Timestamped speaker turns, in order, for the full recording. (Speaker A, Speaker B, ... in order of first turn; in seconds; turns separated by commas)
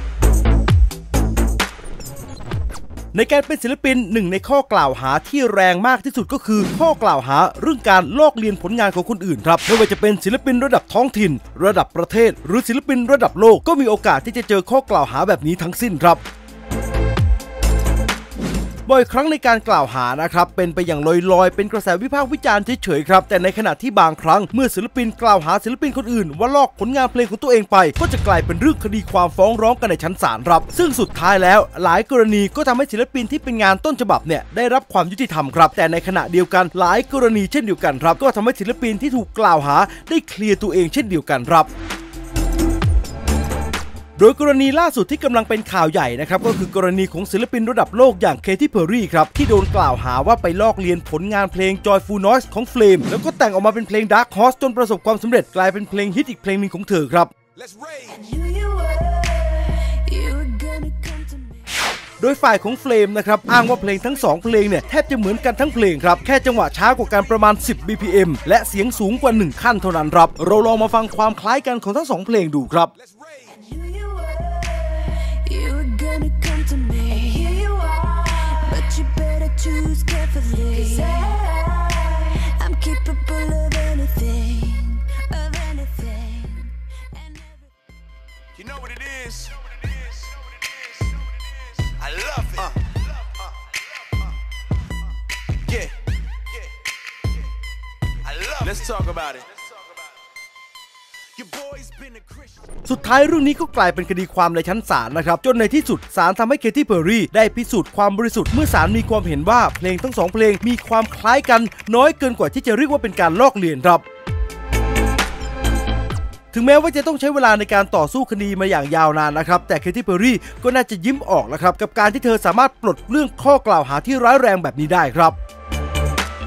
Speaker A: 3.1-16.2, Speaker A: 18.9-41.7, Speaker A: 44.2-57.3, Speaker B: 57.6-58.0, Speaker C: 58.0-61.8, Speaker A: 62.2-72.9, Speaker C: 73.5-87.7, Speaker B: 88.6-89.6, Speaker B: 91.8-92.7, Speaker B: 98.3-99.5, Speaker B: 101.4-102.4, Speaker A: 102.8-114.0, Speaker A: 116.5-125.4